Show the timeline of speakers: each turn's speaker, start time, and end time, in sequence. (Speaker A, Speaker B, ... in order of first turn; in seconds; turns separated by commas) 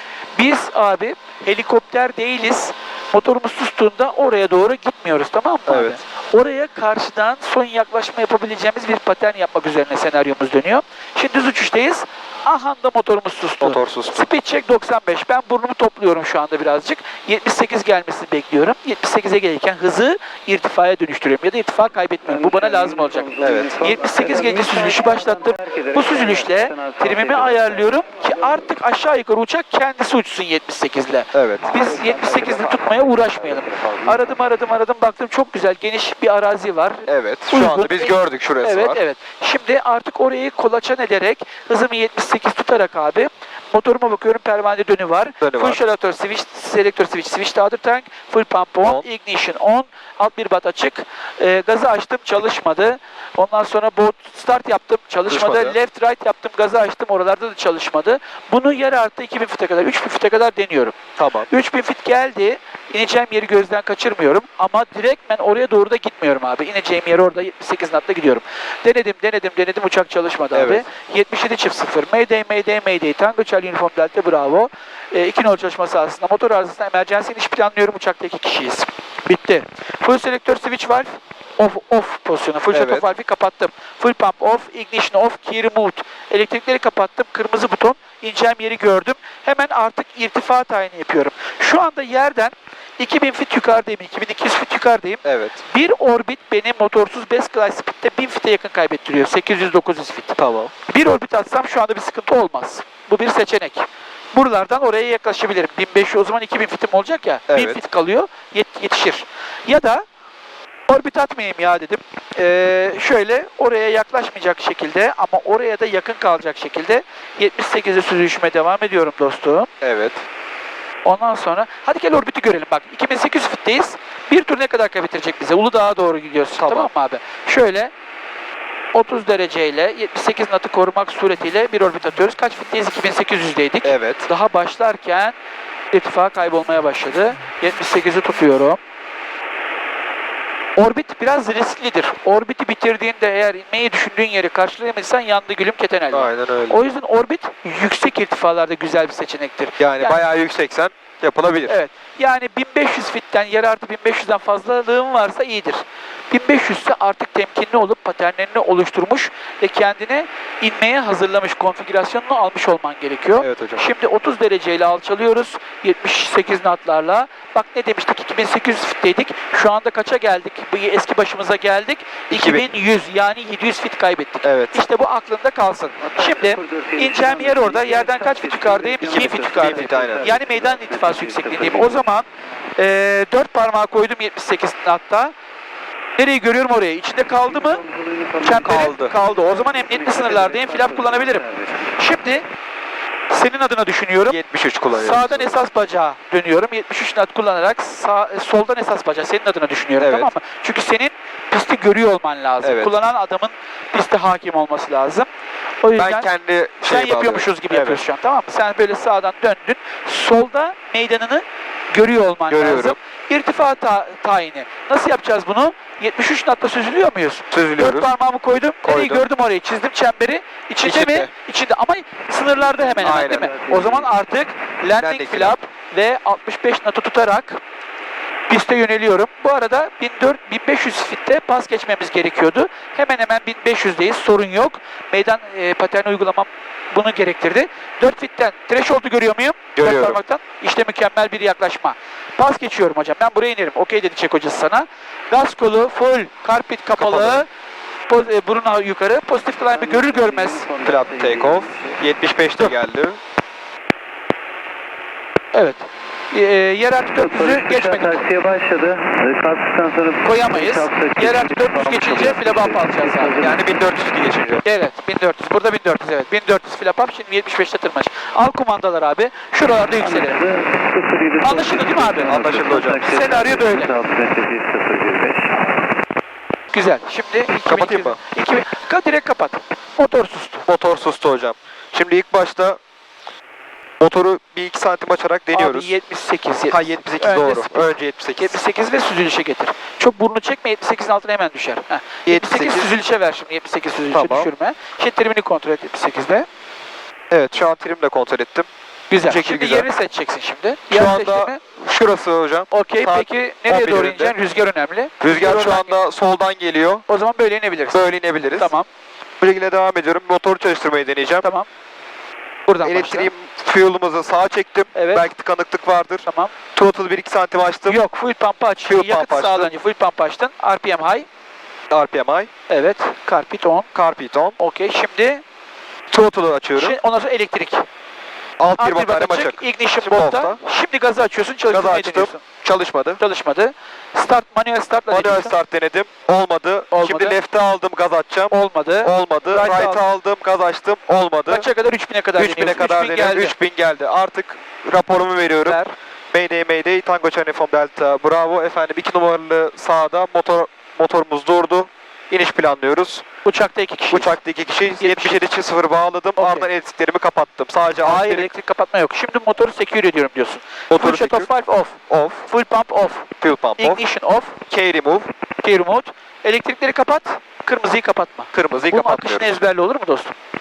Speaker A: 0.4-61.0, Speaker B: 5.7-6.0, Speaker B: 13.6-14.3, Speaker C: 22.2-28.2, Speaker B: 23.4-23.8, Speaker B: 31.3-31.8, Speaker C: 31.7-34.3, Speaker B: 37.1-39.0, Speaker B: 45.4-45.8, Speaker B: 55.3-55.8, Speaker B: 61.2-61.5, Speaker A: 61.5-100.3, Speaker B: 70.5-70.9, Speaker B: 82.7-83.1, Speaker B: 95.2-95.6, Speaker B: 100.4-100.7, Speaker A: 100.9-110.0, Speaker B: 107.5-107.8, Speaker A: 110.9-119.7, Speaker B: 119.8-120.2, Speaker A: 121.0-127.9, Speaker B: 126.6-126.9, Speaker A: 128.9-135.4, Speaker B: 133.8-134.3, Speaker A: 135.9-138.8, Speaker A: 140.8-150.2, Speaker B: 146.1-146.8, Speaker B: 149.8-151.8, Speaker A: 151.7-185.3, Speaker B: 163.4-163.8, Speaker B: 172.3-172.7, Speaker B: 174.4-174.8, Speaker C: 176.0-182.1, Speaker B: 179.0-180.3, Speaker A: 186.2-187.8, Speaker C: 187.4-191.9, Speaker A: 188.4-191.4, Speaker B: 188.5-189.2, Speaker A: 192.0-192.4, Speaker A: 193.3-194.4, Speaker B: 194.3-195.6, Speaker A: 194.9-205.3, Speaker B: 200.0-200.3, Speaker B: 202.6-202.9, Speaker A: 205.8-206.3, Speaker B: 206.0-208.0, Speaker A: 206.8-227.6, Speaker B: 212.5-213.0, Speaker B: 217.5-218.1, Speaker B: 218.8-219.3, Speaker B: 220.8-221.3, Speaker C: 222.6-224.2, Speaker B: 223.0-223.5, Speaker B: 225.0-225.6, Speaker A: 228.5-247.5, Speaker B: 239.8-240.2, Speaker B: 246.9-247.4, Speaker A: 248.1-250.7, Speaker C: 249.6-252.0, Speaker B: 250.8-253.2, Speaker A: 255.5-258.2, Speaker C: 257.2-263.6, Speaker A: 260.2-263.6, Speaker B: 263.4-264.6, Speaker A: 264.6-270.4, Speaker C: 270.0-275.7, Speaker A: 271.4-273.9, Speaker B: 272.3-273.1, Speaker A: 276.7-280.6, Speaker B: 277.7-278.2, Speaker B: 280.7-282.8, Speaker B: 284.0-285.9, Speaker A: 285.5-296.5, Speaker B: 286.7-288.6, Speaker B: 292.3-292.9, Speaker B: 294.1-294.5, Speaker B: 297.3-298.7, Speaker A: 299.1-301.6, Speaker B: 299.3-299.9, Speaker B: 300.9-304.4, Speaker A: 302.7-306.0, Speaker B: 305.2-307.1, Speaker A: 307.1-308.0, Speaker B: 307.9-308.7, Speaker A: 308.6-308.9, Speaker B: 309.4-311.5, Speaker A: 312.7-313.3, Speaker B: 312.8-318.0, Speaker A: 314.9-315.3, Speaker A: 316.3-316.5, Speaker A: 317.9-321.3, Speaker B: 318.9-319.7, Speaker B: 321.9-322.5, Speaker A: 322.7-323.9, Speaker B: 323.9-324.6, Speaker A: 324.6-325.4, Speaker B: 326.1-327.0, Speaker A: 326.8-327.9, Speaker B: 328.6-330.6, Speaker A: 328.8-332.4, Speaker B: 331.7-333.2, Speaker A: 333.2-335.5, Speaker B: 335.1-341.7, Speaker A: 336.9-337.4, Speaker A: 338.5-340.0, Speaker A: 341.5-343.5, Speaker B: 342.4-345.8, Speaker A: 345.6-345.9, Speaker B: 346.3-353.2, Speaker A: 353.4-354.4, Speaker B: 354.1-358.5, Speaker A: 355.0-355.4, Speaker A: 356.4-356.7, Speaker A: 358.0-364.6, Speaker B: 360.9-361.5, Speaker B: 362.1-362.5, Speaker B: 363.4-364.0, Speaker B: 364.7-365.3, Speaker A: 365.6-370.4, Speaker B: 368.5-369.6